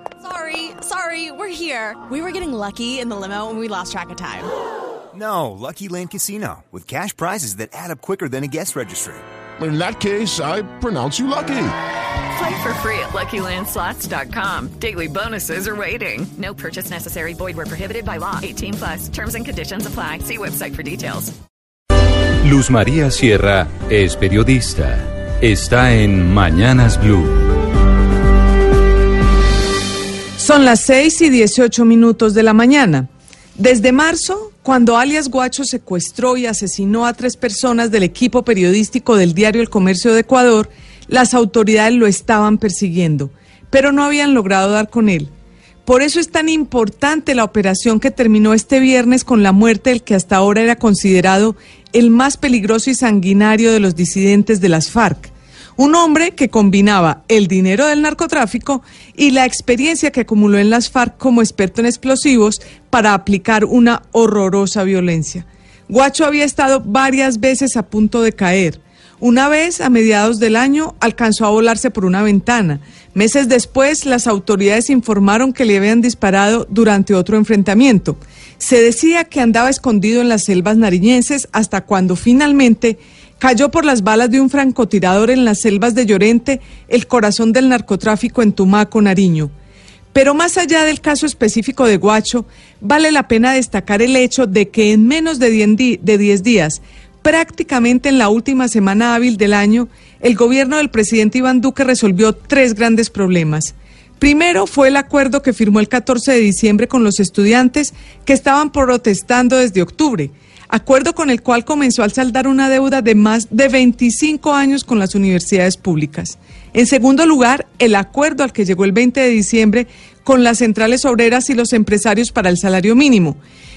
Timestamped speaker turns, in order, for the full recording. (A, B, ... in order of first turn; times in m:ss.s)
0:00.2-0:04.5 A
0:05.1-0:09.2 B
0:09.6-0:11.8 C
0:12.3-0:21.3 D
0:22.4-0:27.4 E
0:30.4-0:45.3 F
0:45.8-1:29.5 F
1:30.1-2:03.4 F